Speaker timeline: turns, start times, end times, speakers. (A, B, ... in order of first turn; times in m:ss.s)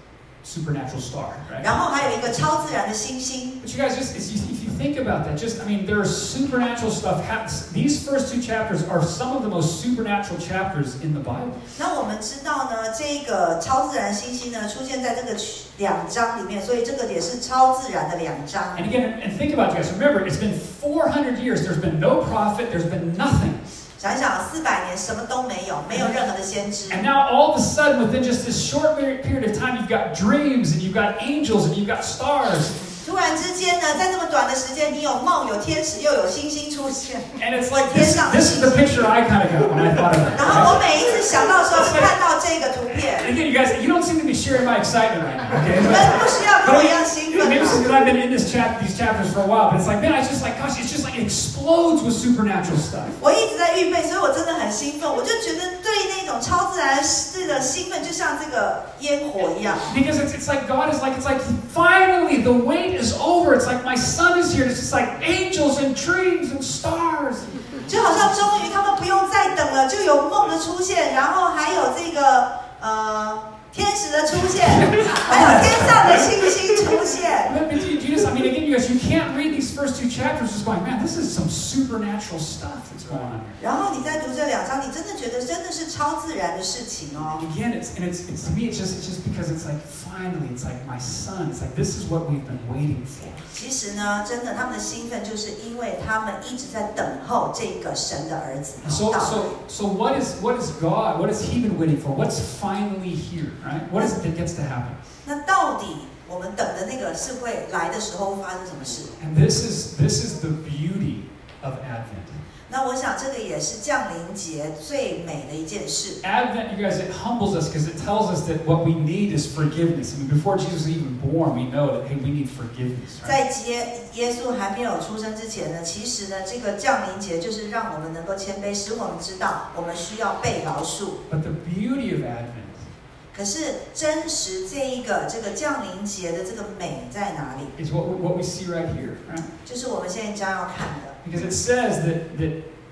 0:00.4-0:02.3 A
0:01.6-0:03.6 B
0:03.6-0:11.6 A
0:11.8-0:18.9 B
0:18.8-0:23.6 A
0:24.0-0:27.0 B
0:26.9-0:32.8 A
0:33.0-0:39.0 B
0:37.4-0:40.8 A
0:40.4-0:43.3 B
0:43.1-0:53.2 A
0:45.8-0:47.8 B
0:53.2-1:00.0 B
0:59.9-1:07.6 A
1:07.9-1:17.6 B
1:14.6-1:16.3 A
1:17.4-1:23.6 A
1:23.6-1:27.4 B
1:27.3-1:33.4 A
1:33.5-1:39.5 B
1:38.8-1:45.0 A
1:45.2-1:49.2 B
1:49.2-1:52.4 A
1:52.7-1:56.2 B
1:56.2-2:03.4 A
2:03.2-2:11.2 B
2:11.3-2:12.9 A
2:13.3-2:17.7 B
2:17.8-2:19.5 A
2:19.6-2:21.2 B
2:21.2-2:22.6 A